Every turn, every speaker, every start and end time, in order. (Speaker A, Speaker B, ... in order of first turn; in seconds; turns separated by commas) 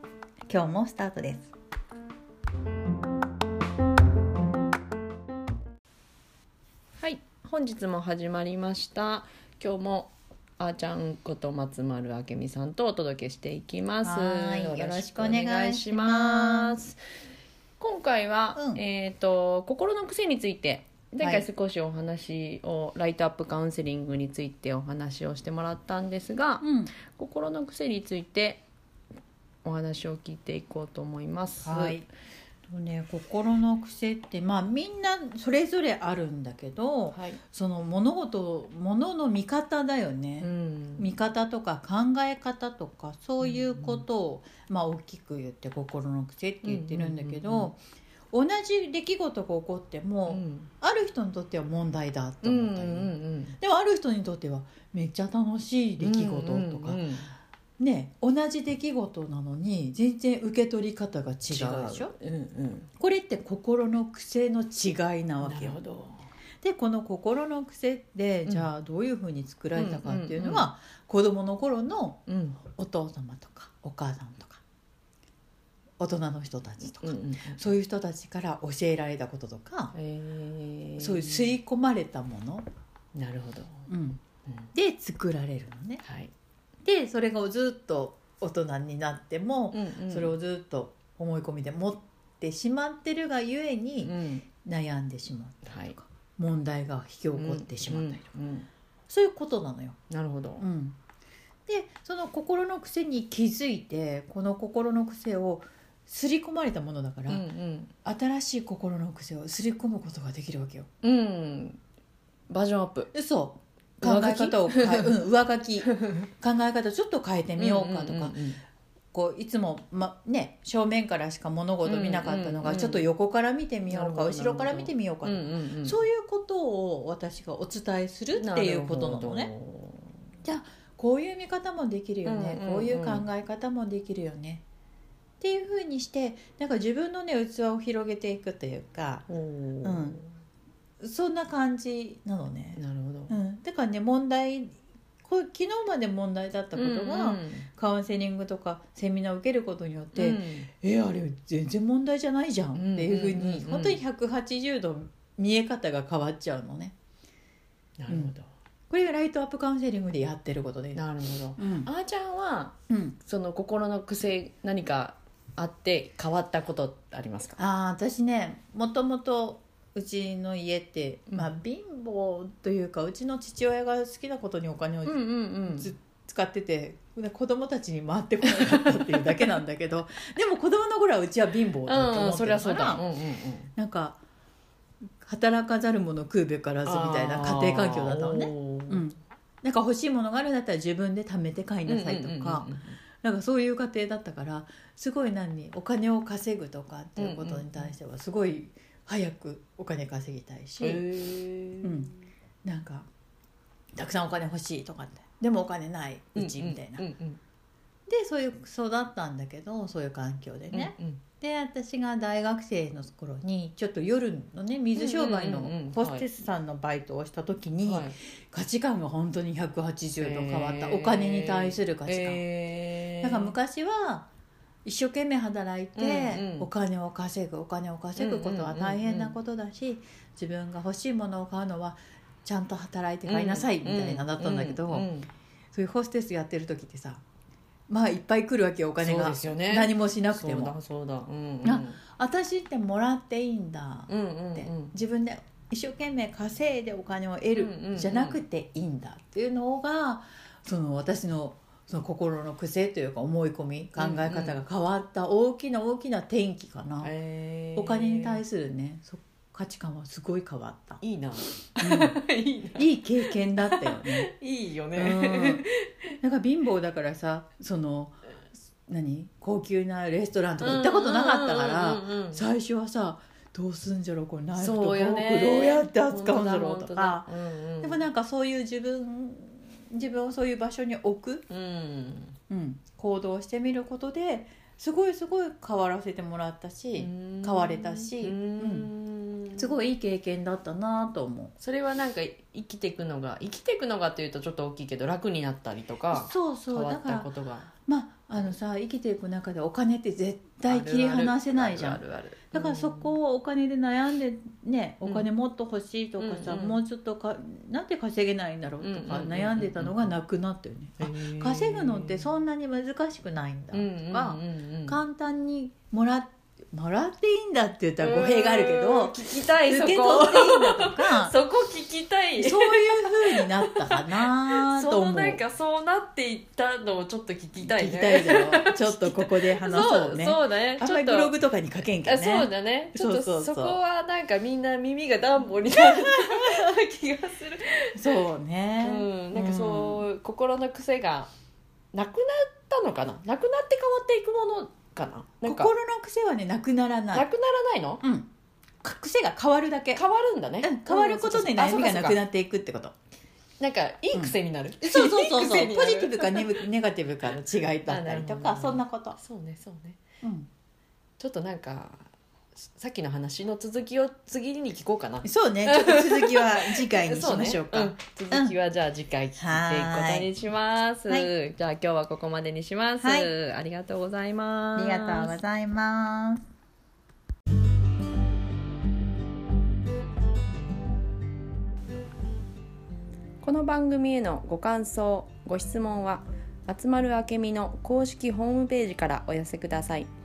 Speaker A: 0.5-1.5, Speaker B: 7.0-17.0, Speaker A: 14.0-16.8, Speaker B: 17.8-28.6, Speaker A: 18.6-18.8, Speaker A: 21.2-21.5, Speaker A: 26.6-26.9, Speaker B: 29.6-32.0, Speaker A: 31.6-32.1, Speaker A: 32.7-47.8, Speaker B: 37.1-37.4, Speaker B: 40.4-41.1, Speaker B: 43.4-44.0, Speaker B: 46.6-47.7, Speaker A: 48.3-57.0, Speaker B: 50.3-50.7, Speaker B: 52.4-53.5, Speaker B: 56.0-57.3, Speaker A: 57.8-62.1, Speaker B: 61.5-62.9, Speaker A: 63.0-65.8, Speaker B: 65.4-66.2, Speaker A: 66.6-72.2, Speaker B: 69.7-70.7, Speaker B: 72.3-72.6, Speaker A: 72.7-74.6, Speaker A: 76.0-79.9, Speaker B: 77.0-77.6, Speaker B: 79.9-81.5, Speaker A: 81.0-82.7, Speaker B: 83.1-83.8, Speaker A: 83.9-84.2, Speaker A: 84.7-86.0, Speaker B: 86.0-86.3, Speaker A: 86.8-98.2, Speaker B: 89.7-90.3, Speaker B: 94.0-94.5, Speaker B: 95.6-95.9, Speaker B: 97.3-98.7, Speaker A: 99.1-100.0, Speaker B: 100.1-100.6, Speaker A: 100.6-101.0, Speaker A: 101.7-107.5, Speaker B: 107.3-107.9, Speaker A: 108.0-110.9, Speaker B: 111.0-111.8, Speaker B: 112.5-113.1, Speaker A: 113.1-118.3, Speaker B: 114.0-115.1, Speaker B: 117.6-118.6, Speaker A: 119.1-129.5, Speaker B: 121.8-123.1, Speaker B: 123.9-126.0, Speaker B: 128.3-130.1, Speaker A: 130.4-134.6, Speaker B: 132.2-133.2, Speaker A: 135.4-139.3, Speaker B: 139.3-140.3, Speaker A: 139.8-140.2, Speaker A: 141.0-156.9, Speaker B: 142.8-143.4, Speaker B: 146.7-147.7, Speaker B: 150.1-150.7, Speaker B: 152.7-154.0, Speaker B: 158.0-158.5, Speaker A: 158.1-158.3, Speaker A: 158.9-161.0, Speaker B: 160.9-167.6, Speaker A: 161.6-161.9, Speaker A: 162.9-163.2, Speaker A: 167.6-183.0, Speaker B: 175.0-175.9, Speaker B: 181.9-183.7, Speaker A: 183.8-184.2, Speaker A: 185.2-192.7, Speaker B: 186.8-189.1, Speaker B: 191.9-193.0, Speaker A: 193.2-201.1, Speaker B: 197.2-197.9, Speaker B: 200.8-202.1, Speaker A: 201.8-203.1, Speaker A: 203.9-207.0, Speaker B: 206.3-207.4, Speaker A: 208.1-222.4, Speaker B: 210.7-211.2, Speaker B: 214.9-216.2, Speaker B: 217.8-218.1, Speaker B: 220.2-223.5, Speaker A: 223.2-224.3, Speaker A: 224.8-235.1, Speaker B: 226.0-226.7, Speaker B: 228.2-229.3, Speaker B: 233.2-235.3, Speaker A: 235.7-237.2, Speaker A: 237.9-240.7, Speaker B: 239.0-242.0, Speaker A: 241.6-257.1, Speaker B: 244.1-244.9, Speaker B: 247.5-248.4, Speaker B: 254.0-254.6, Speaker B: 257.0-258.4, Speaker A: 257.8-261.0, Speaker B: 261.0-262.9, Speaker A: 261.8-262.2, Speaker A: 262.7-264.3, Speaker B: 263.6-265.9, Speaker A: 264.9-265.6, Speaker A: 266.2-268.1, Speaker A: 268.9-277.3, Speaker B: 270.6-272.4, Speaker B: 274.6-278.0, Speaker A: 277.8-281.4, Speaker B: 281.5-282.4, Speaker A: 282.5-288.9, Speaker B: 286.9-289.7, Speaker A: 289.5-291.5, Speaker B: 291.6-297.7, Speaker A: 296.1-297.3, Speaker A: 297.9-302.0, Speaker B: 300.6-303.1, Speaker A: 302.5-321.3, Speaker B: 306.2-306.8, Speaker B: 308.8-310.1, Speaker B: 311.0-312.2, Speaker B: 313.7-315.0, Speaker B: 318.0-331.3, Speaker A: 322.4-325.4, Speaker A: 327.6-333.8, Speaker B: 332.0-338.2, Speaker A: 335.7-336.4, Speaker A: 337.9-340.0, Speaker B: 338.8-341.3, Speaker B: 341.9-345.7, Speaker A: 345.4-347.3, Speaker B: 347.1-348.0, Speaker A: 348.0-348.3, Speaker A: 348.8-350.0, Speaker B: 349.9-352.2, Speaker A: 350.6-352.9, Speaker B: 353.6-356.6, Speaker A: 354.1-359.2, Speaker B: 357.9-360.0, Speaker A: 360.2-360.5, Speaker B: 361.2-362.1, Speaker B: 362.8-375.4, Speaker A: 365.2-368.5, Speaker A: 369.4-370.3, Speaker A: 373.0-373.3, Speaker A: 374.8-376.4, Speaker B: 383.4-390.1